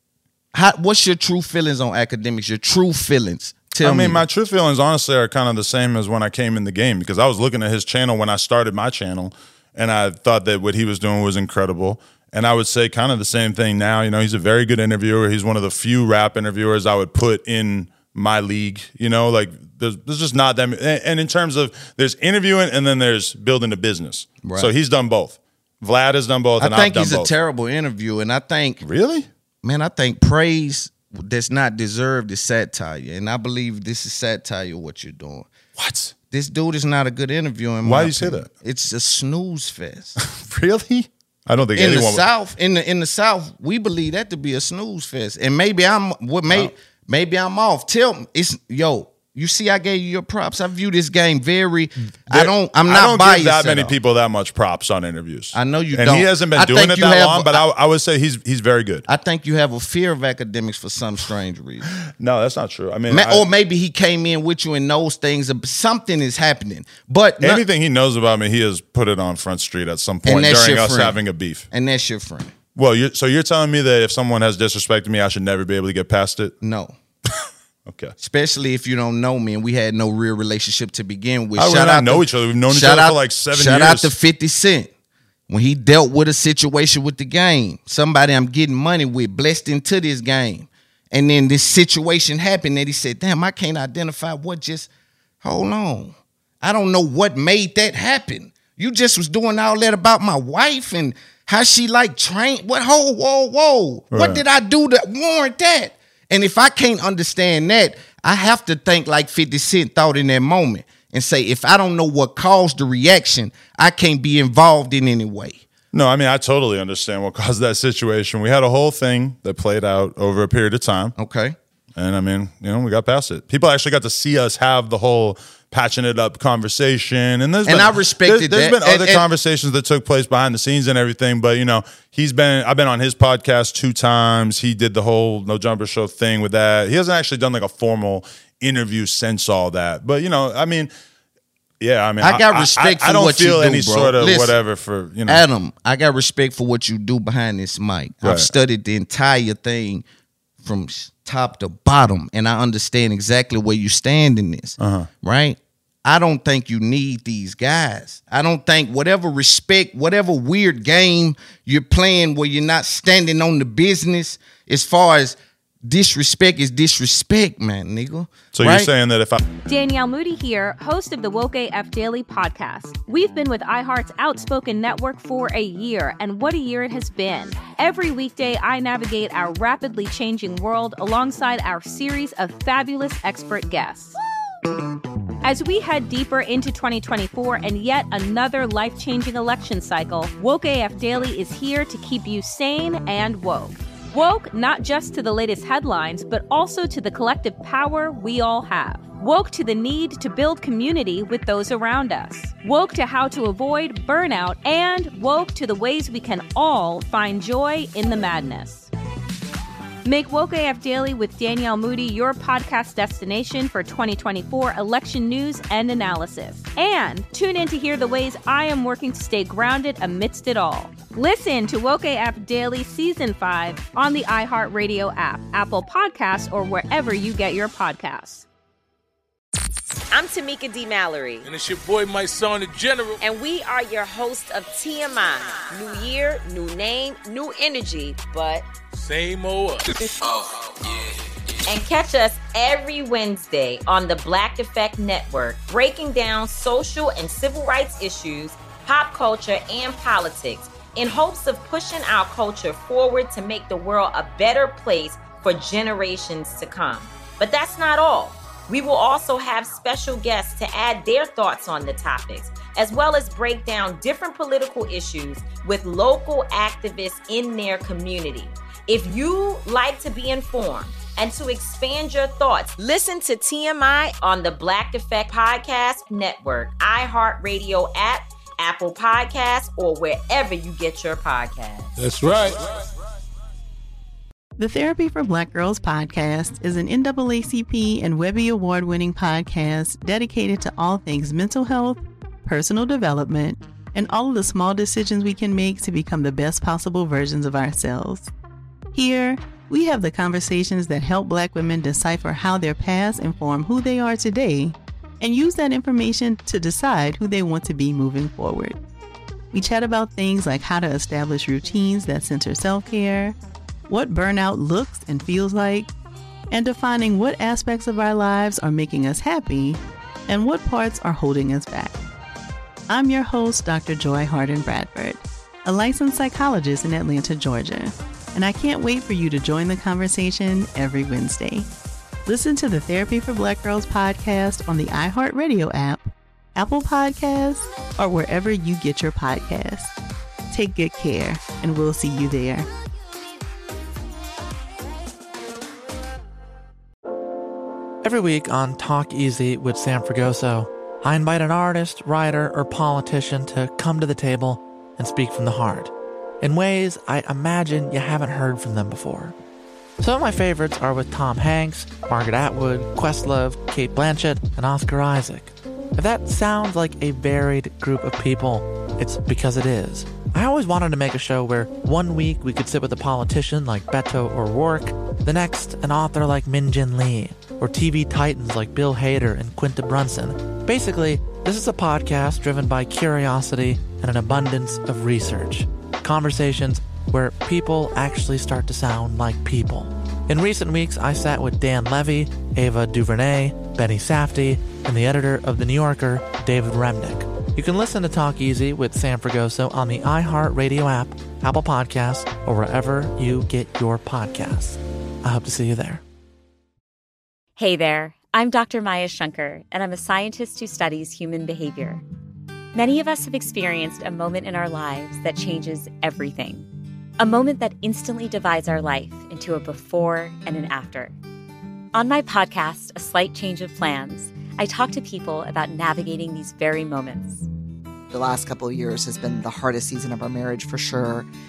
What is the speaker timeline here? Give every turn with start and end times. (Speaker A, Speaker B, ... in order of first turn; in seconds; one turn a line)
Speaker A: 0.5-4.2
Speaker B: 3.8-27.3
Speaker A: 24.4-24.7
Speaker A: 26.6-28.8
Speaker B: 28.8-29.3
Speaker A: 29.6-35.5
Speaker B: 35.8-36.1
Speaker A: 36.3-40.2
Speaker B: 37.8-38.5
Speaker B: 40.2-42.2
Speaker A: 41.7-53.9
Speaker B: 52.3-59.0
Speaker A: 55.5-57.6
Speaker A: 59.1-61.9
Speaker B: 62.2-63.4
Speaker A: 63.1-67.6
Speaker B: 67.4-71.7
Speaker A: 70.2-71.2
Speaker A: 71.7-72.5
Speaker B: 72.8-76.5
Speaker A: 76.6-76.9
Speaker B: 77.9-78.1
Speaker A: 78.2-84.9
Speaker B: 81.6-84.1
Speaker A: 85.5-94.9
Speaker A: 95.4-115.6
Speaker B: 104.1-104.4
Speaker B: 115.9-121.1
Speaker A: 121.2-121.5
Speaker B: 122.0-140.9
Speaker A: 127.7-129.2
Speaker B: 141.8-145.4
Speaker A: 142.2-144.6
Speaker A: 145.3-150.0
Speaker B: 148.2-148.5
Speaker A: 150.6-168.9
Speaker B: 154.8-155.1
Speaker B: 168.5-169.4
Speaker C: 169.7-184.2
Speaker C: 185.4-208.9
Speaker C: 210.0-228.4
Speaker D: 230.1-231.4
Speaker E: 231.4-233.2
Speaker D: 233.2-238.7
Speaker E: 238.9-240.0
Speaker D: 241.7-281.9
Speaker E: 281.9-282.9
Speaker F: 284.6-298.3
Speaker F: 298.9-308.8
Speaker F: 309.5-313.4
Speaker F: 313.9-315.9
Speaker F: 316.5-321.9
Speaker F: 322.9-331.7
Speaker F: 332.2-339.9
Speaker F: 340.5-342.7
Speaker G: 348.0-359.3
Speaker G: 360.0-406.0
Speaker H: 407.6-412.0
Speaker H: 412.7-416.7
Speaker H: 417.2-421.1
Speaker H: 421.9-427.5
Speaker I: 428.1-431.3